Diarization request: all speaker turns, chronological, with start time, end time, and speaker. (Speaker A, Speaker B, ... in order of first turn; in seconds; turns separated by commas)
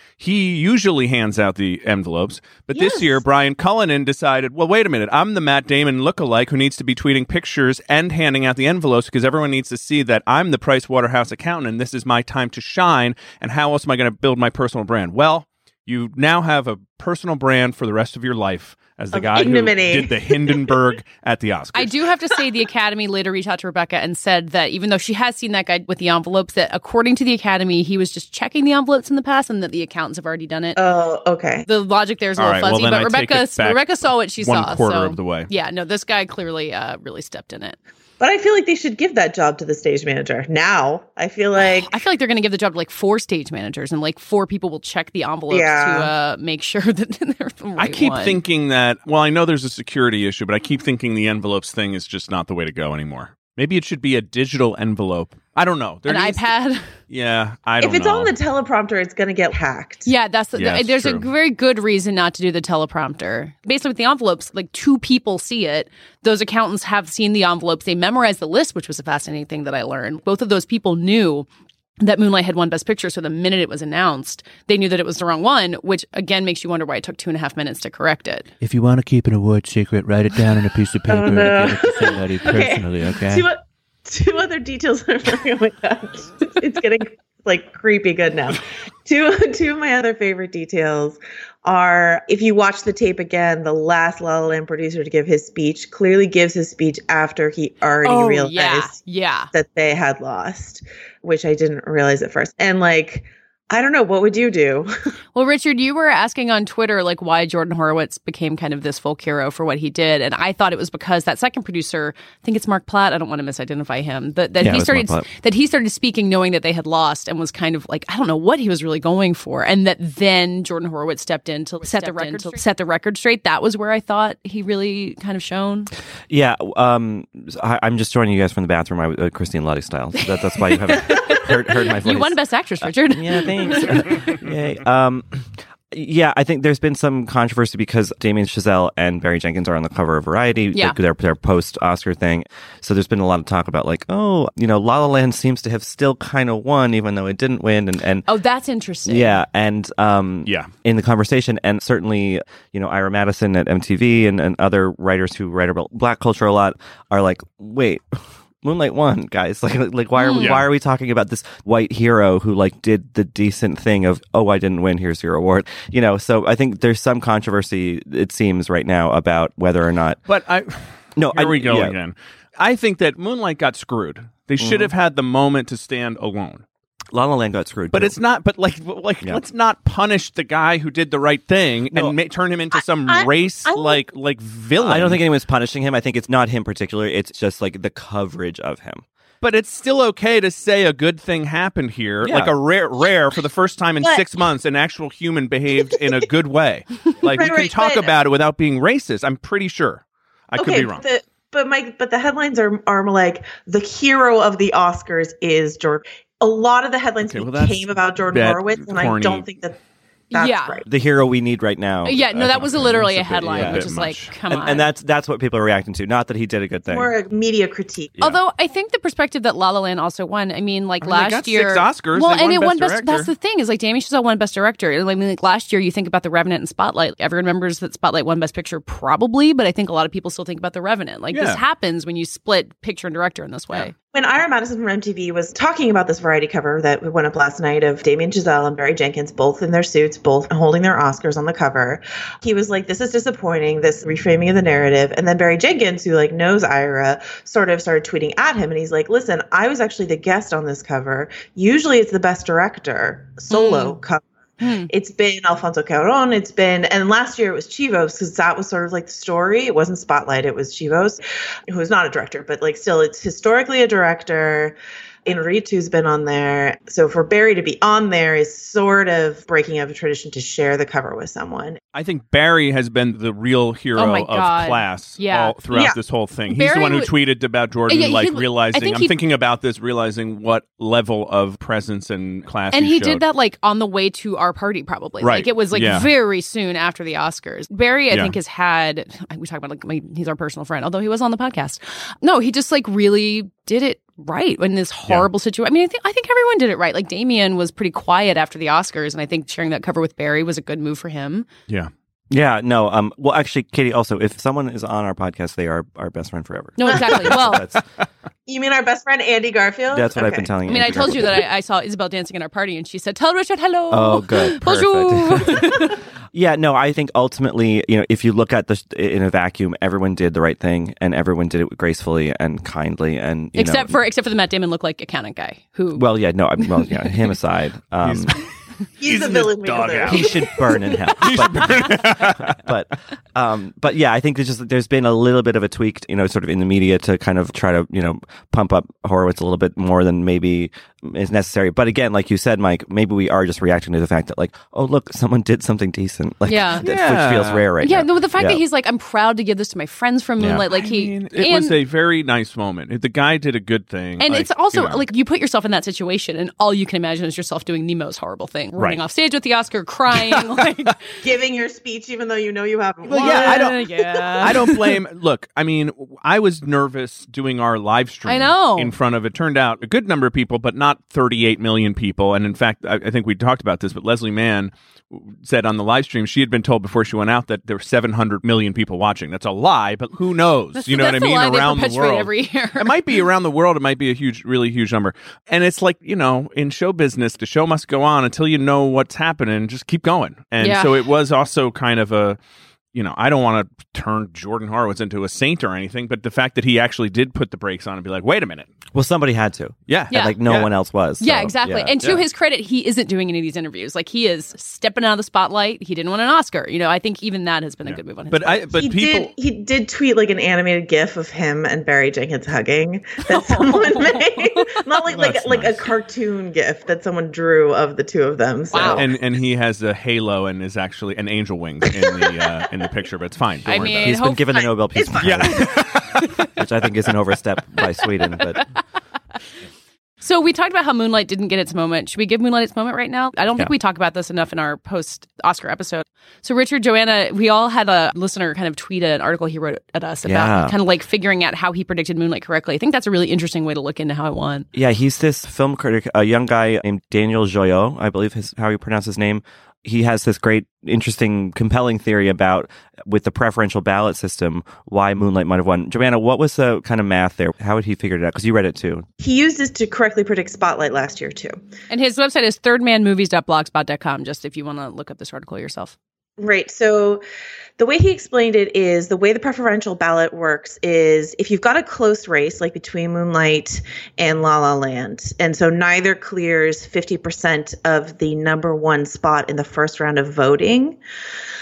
Speaker A: 0.2-22.0, Speaker B: 2.7-3.2, Speaker B: 19.1-20.8, Speaker C: 21.7-30.8, Speaker B: 30.8-31.7, Speaker C: 31.7-37.8, Speaker A: 32.4-35.5, Speaker B: 38.2-42.0, Speaker C: 41.6-48.4, Speaker B: 45.5-46.1, Speaker A: 47.8-56.5, Speaker C: 56.1-56.9, Speaker A: 57.1-58.3, Speaker B: 57.8-60.1, Speaker C: 60.1-71.5, Speaker A: 60.6-61.3, Speaker C: 72.0-78.5, Speaker D: 78.6-83.5, Speaker B: 81.1-99.0, Speaker C: 98.0-99.5, Speaker B: 99.5-104.9, Speaker C: 105.3-125.9, Speaker E: 114.6-115.3, Speaker E: 126.3-148.2, Speaker C: 130.7-134.4, Speaker C: 148.3-149.4, Speaker E: 149.1-170.2, Speaker A: 150.5-150.7, Speaker C: 160.2-160.6, Speaker A: 160.3-160.7, Speaker A: 170.3-176.6, Speaker E: 171.2-172.0, Speaker E: 174.6-174.9, Speaker E: 177.1-178.2, Speaker A: 177.9-185.2, Speaker B: 183.1-184.0, Speaker E: 184.8-189.0, Speaker A: 189.4-201.0, Speaker E: 192.2-192.6, Speaker B: 197.2-198.1, Speaker B: 200.6-209.8, Speaker A: 207.2-209.4, Speaker B: 210.3-210.9, Speaker C: 210.3-210.8, Speaker E: 210.9-213.0, Speaker C: 212.1-214.9, Speaker A: 212.7-214.3, Speaker E: 213.5-213.9, Speaker E: 214.5-217.1, Speaker B: 216.9-218.2, Speaker C: 218.2-233.9, Speaker A: 221.0-223.3, Speaker A: 231.3-231.6, Speaker B: 234.1-254.3, Speaker C: 253.5-254.0, Speaker C: 254.6-254.9, Speaker B: 254.9-271.8, Speaker A: 271.9-283.2, Speaker C: 274.0-275.6, Speaker B: 275.7-276.0, Speaker C: 276.5-277.1, Speaker C: 277.9-279.2, Speaker C: 282.7-301.5, Speaker A: 285.2-286.1, Speaker E: 302.3-307.8, Speaker C: 306.8-307.7, Speaker B: 308.5-310.5, Speaker E: 309.9-311.4, Speaker C: 310.7-316.0, Speaker E: 313.9-324.0, Speaker C: 323.6-327.2, Speaker E: 325.9-328.4, Speaker A: 328.0-328.4, Speaker B: 329.0-331.0, Speaker A: 329.0-332.6, Speaker E: 330.1-348.6, Speaker C: 346.5-346.9, Speaker A: 346.8-347.7, Speaker C: 347.8-351.8, Speaker A: 350.7-355.0, Speaker C: 354.2-361.0, Speaker A: 358.8-359.0, Speaker A: 360.1-360.9, Speaker B: 361.2-364.8, Speaker A: 363.1-363.8, Speaker C: 363.1-364.8, Speaker A: 364.4-392.4, Speaker C: 368.3-368.9, Speaker C: 380.8-383.1, Speaker C: 390.6-391.0, Speaker A: 392.9-398.7, Speaker E: 398.9-402.0, Speaker A: 399.9-400.7, Speaker C: 400.1-400.4, Speaker C: 401.2-408.7, Speaker A: 407.9-409.3, Speaker B: 408.8-419.1, Speaker C: 413.3-414.8, Speaker A: 415.1-415.9, Speaker C: 418.7-419.1, Speaker A: 418.8-424.2, Speaker C: 423.7-424.7, Speaker E: 423.8-425.8, Speaker B: 425.0-425.2, Speaker A: 425.2-426.3, Speaker E: 426.4-428.6, Speaker C: 430.2-444.7, Speaker E: 440.2-440.8, Speaker E: 444.7-459.1, Speaker B: 459.2-461.6, Speaker C: 461.9-465.9, Speaker B: 466.4-467.2, Speaker B: 467.8-481.0